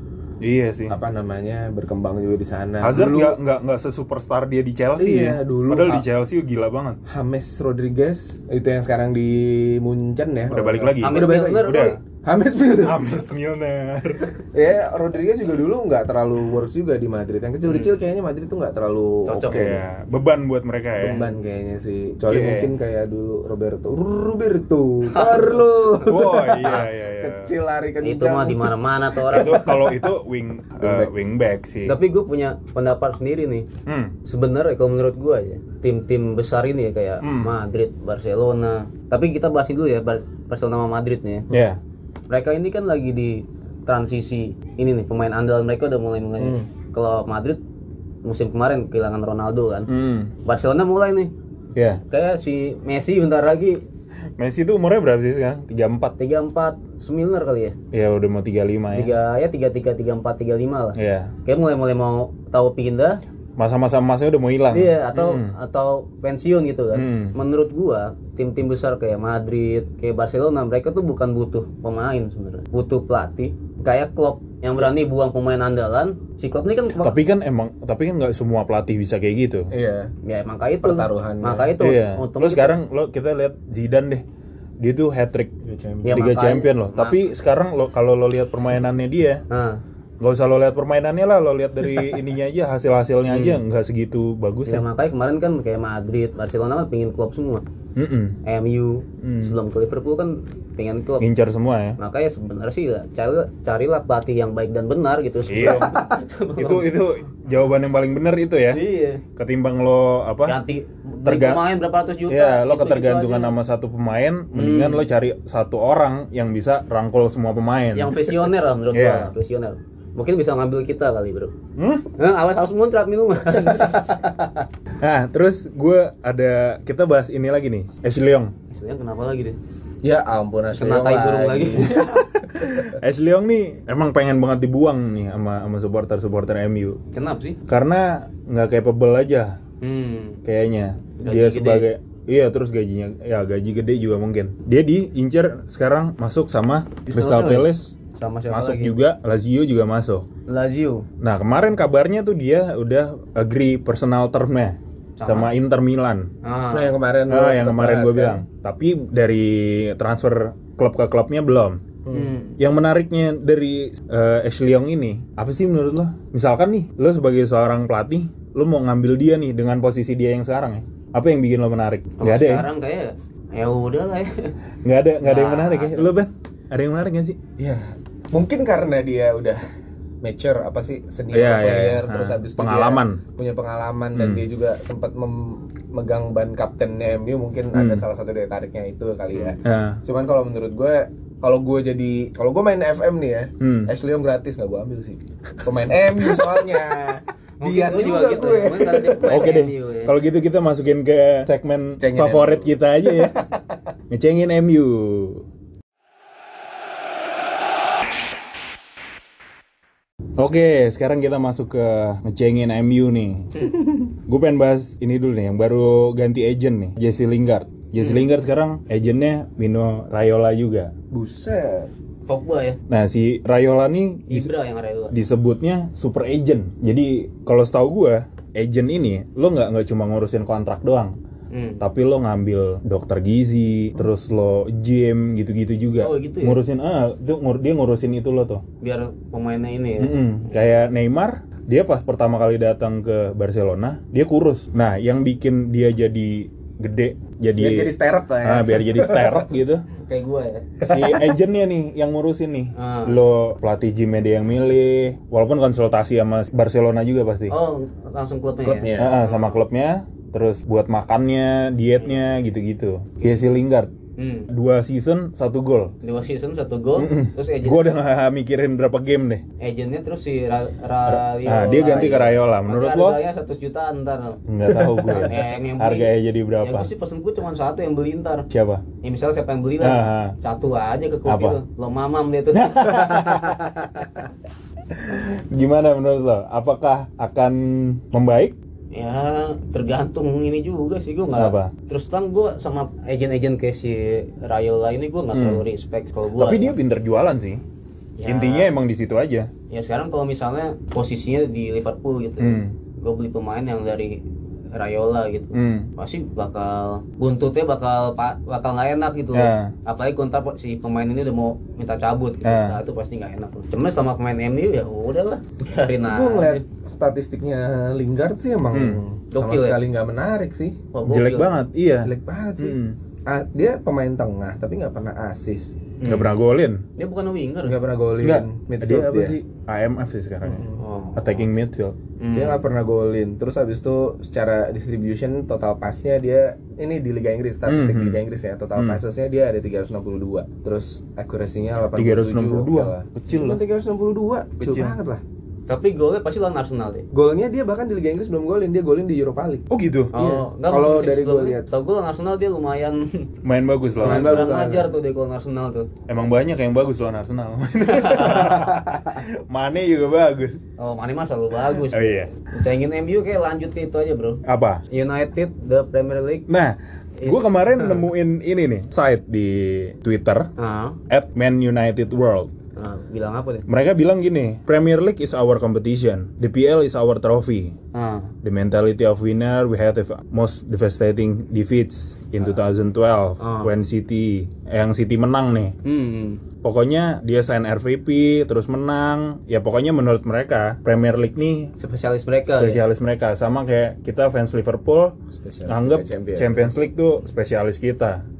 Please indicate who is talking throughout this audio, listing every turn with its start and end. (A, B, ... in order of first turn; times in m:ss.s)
0:00.4-0:01.0 A
0:00.9-0:03.4 B
0:02.8-0:07.0 A
0:05.0-0:06.0 B
0:07.1-0:13.2 B
0:10.5-0:12.0 A
0:11.0-0:12.0 C
0:12.8-0:14.3 A
0:14.5-0:19.8 B
0:17.7-0:18.0 C
0:19.3-0:19.8 C
0:19.5-0:21.3 A
0:21.0-0:28.7 B
0:22.3-0:22.7 A
0:25.1-0:26.9 C
0:26.0-0:27.5 A
0:28.0-0:29.7 C
0:29.3-0:32.0 A
0:29.3-0:30.0 B
0:30.8-0:31.1 B
0:31.9-0:33.7 C
0:33.9-0:34.1 A
0:34.2-0:41.5 C
0:37.2-0:37.6 A
0:41.5-0:41.8 A
0:42.3-0:47.6 C
0:46.4-0:46.7 B
0:48.2-0:49.9 C
0:49.9-0:50.3 A
0:50.4-0:51.3 C
0:51.8-0:52.0 A
0:52.1-0:53.8 C
0:54.4-0:56.2 A
0:56.2-0:57.8 C
0:57.9-0:59.1 A
0:58.9-1:03.2 C
1:01.0-1:01.3 A
1:03.6-1:05.5 A
1:04.7-1:17.2 C
1:06.9-1:07.4 A
1:17.0-1:19.7 A
1:19.7-1:20.1 B
1:20.2-1:22.8 C
1:20.8-1:21.8 B
1:21.8-1:24.2 A
1:24.8-1:25.5 A
1:25.6-1:26.3 B
1:26.0-1:27.2 C
1:26.1-1:29.4 A
1:29.5-1:29.8 C
1:30.2-1:34.8 A
1:33.3-1:33.6 C
1:34.7-1:37.6 C
1:38.0-1:38.4 A
1:38.4-1:41.3 C
1:39.2-1:39.6 A
1:41.2-1:42.0 A
1:42.0-1:46.9 C
1:45.5-1:46.0 A
1:46.6-1:48.8 A
1:48.7-1:49.2 C
1:49.4-1:50.6 A
1:50.4-1:53.5 C
1:51.2-1:51.6 A
1:52.3-1:58.4 A
1:54.5-1:55.0 C
1:58.0-2:01.5 C
1:58.9-1:59.3 A
2:01.8-2:02.1 A
2:02.2-2:04.1 C
2:03.7-2:04.3 B
2:05.0-2:08.5 A
2:08.7-2:09.6 C
2:10.0-2:12.1 B
2:10.8-2:12.3 C
2:12.5-2:17.0 A
2:17.1-2:17.6 C
2:17.7-2:19.6 A
2:19.8-2:20.4 C
2:20.4-2:27.9 A
2:21.2-2:21.9 C
2:27.1-2:29.0 C
2:28.5-2:30.3 A
2:30.5-2:31.1 C
2:31.2-2:36.3 A
2:35.2-2:35.5 C
2:36.4-2:36.9 C
2:36.7-2:38.4 B
2:37.3-2:41.8 A
2:42.0-2:42.4 B
2:42.1-2:42.6 C
2:42.6-2:52.7 A
2:52.2-2:54.6 C
2:54.8-2:57.4 A
2:55.2-2:56.1 C
2:57.6-2:59.6 B
3:00.2-3:19.4 B
3:01.3-3:03.2 A
3:04.2-3:04.4 A
3:07.7-3:08.0 A
3:09.6-3:10.0 A
3:13.6-3:13.9 A
3:17.6-3:20.1 C
3:19.3-3:23.4 A
3:22.0-3:23.5 B
3:24.1-3:25.5 A
3:30.4-3:33.7 A
3:34.3-3:40.9 A
3:38.0-3:38.3 C
3:41.1-3:41.9 B
3:42.3-3:42.8 C
3:42.9-3:44.5 A
3:44.3-3:45.2 C
3:45.1-3:51.2 A
3:51.5-3:51.8 C
3:51.8-3:58.6 A
3:56.0-3:56.6 C
3:58.8-4:00.2 C
4:00.0-4:09.8 A
4:07.6-4:09.5 B
4:09.9-4:10.7 C
4:10.8-4:11.4 B
4:10.8-4:17.5 A
4:12.8-4:13.2 C
4:17.5-4:19.6 C
4:18.6-4:19.2 B
4:19.0-4:23.9 A
4:24.2-4:24.5 C
4:24.5-4:25.9 A
4:26.0-4:28.0 C
4:27.0-4:29.4 A
4:29.6-4:34.4 C
4:31.1-4:33.2 A
4:34.5-4:36.9 A
4:34.8-4:35.3 B
4:35.2-4:38.5 C
4:38.5-4:38.8 A
4:39.0-4:43.2 C
4:39.8-4:40.4 A
4:41.3-4:41.6 A
4:42.5-4:43.8 A
4:43.1-4:43.6 B
4:44.9-4:48.6 A
4:48.9-4:56.8 C
4:51.4-4:51.7 A
4:55.3-4:55.7 A
4:56.4-4:57.6 A
4:58.2-4:58.7 C
4:58.2-4:59.5 A
4:59.7-5:04.2 C
5:02.4-5:02.8 A
5:04.7-5:16.6 C
5:05.5-5:05.9 A
5:09.3-5:09.7 A
5:12.4-5:12.8 A
5:16.0-5:20.8 B
5:18.7-5:19.0 A
5:19.3-5:19.8 C
5:20.9-5:21.5 C
5:21.0-5:23.0 A
5:22.0-5:25.8 B
5:26.0-5:26.3 C
5:26.0-5:26.8 A
5:27.0-5:27.8 C
5:27.6-5:29.4 B
5:28.2-5:32.0 A
5:30.4-5:30.8 B
5:30.7-5:31.4 C
5:32.2-5:32.6 C
5:32.3-5:45.2 B
5:37.7-5:38.2 A
5:38.8-5:39.0 A
5:42.0-5:43.6 A
5:44.6-5:45.0 A
5:45.7-5:47.1 C
5:47.1-5:51.7 B
5:49.7-5:50.1 A
5:50.1-5:53.3 C
5:53.4-5:54.6 A
5:54.0-5:55.9 C
5:54.0-5:54.9 B
5:56.1-6:00.6 A
5:57.8-5:58.7 C
5:58.3-5:59.2 B
6:00.8-6:06.5 C
6:01.9-6:02.3 A
6:04.5-6:04.8 A
6:06.5-6:10.5 A
6:07.2-6:08.1 C
6:10.6-6:11.0 C
6:11.1-6:12.5 A
6:12.8-6:13.7 C
6:13.7-6:17.8 A
6:17.9-6:18.3 C
6:18.4-6:25.8 A
6:23.4-6:23.7 C
6:25.8-6:26.4 C
6:26.6-6:31.7 A
6:31.8-6:32.8 C
6:32.5-6:35.2 A
6:35.4-6:36.7 B
6:35.7-6:38.2 A